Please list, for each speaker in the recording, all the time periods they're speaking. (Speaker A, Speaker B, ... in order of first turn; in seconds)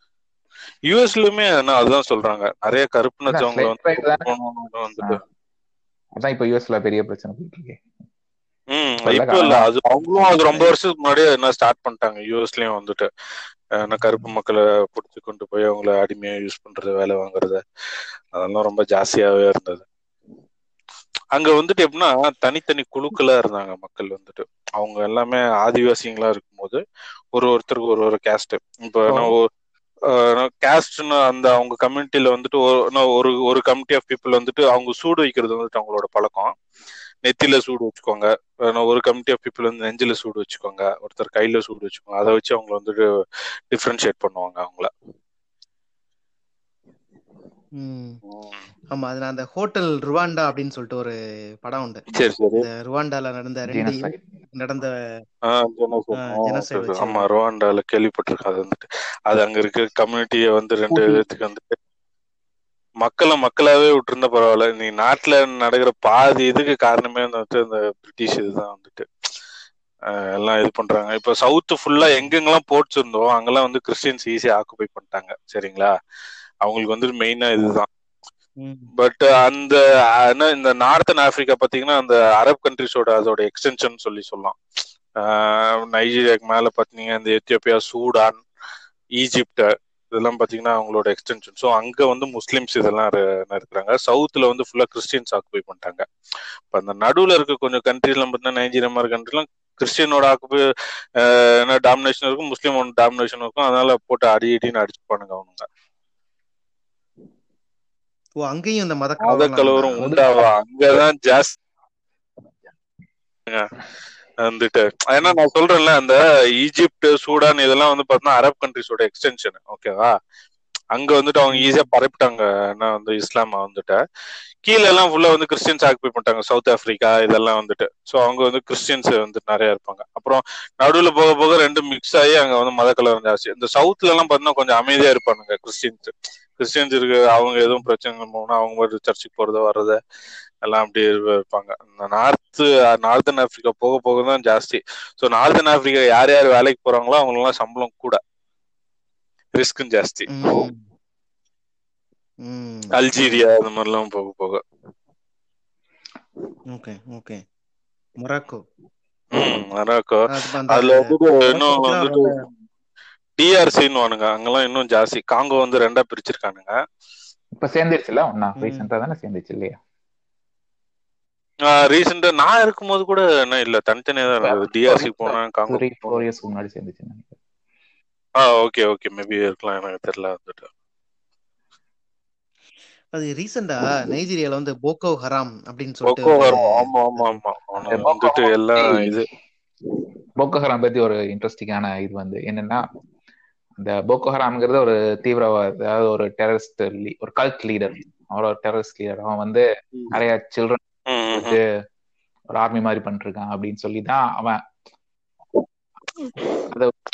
Speaker A: 0.9-5.2, 8.7-13.1, 13.8-17.6, 18.3-19.9, 21.3-26.8, 27.3-29.4, 30.1-36.5, 37.2-43.0, 43.7-44.9, 48.3-48.7, 52.1-52.7, 55.5-61.8, 63.0-69.1, 70.4-75.9, 76.6-77.9, 79.0-84.5, 85.2-88.4, 89.2-96.0, 96.7-100.6, 101.2-105.7, 109.2-111.5, 114.5-120.1, 120.9-124.0, 124.6-139.9, 140.6-148.2, 149.6-150.6, 152.9-154.6, 159.3-162.3, 163.4-166.7, 171.7-176.2, 178.4-180.7, 186.1-189.3, 201.1-201.6
Speaker B: 3.3-4.4, 6.1-7.8, 9.1-10.7, 53.7-54.2, 60.9-61.2, 167.6-169.8, 174.4-177.3, 187.8-189.2, 190.4-192.8, 193.8-200.8, 201.3-201.6, 202.5-204.6
Speaker C: 47.8-48.2, 48.9-52.0, 52.6-54.9, 56.2-57.2, 78.6-78.9, 108.4-110.1, 121.5-121.9, 150.3-150.9, 152.4-152.9, 156.7-157.4, 158.2-158.6, 160.3-162.3, 168.6-168.9, 183.1-187.4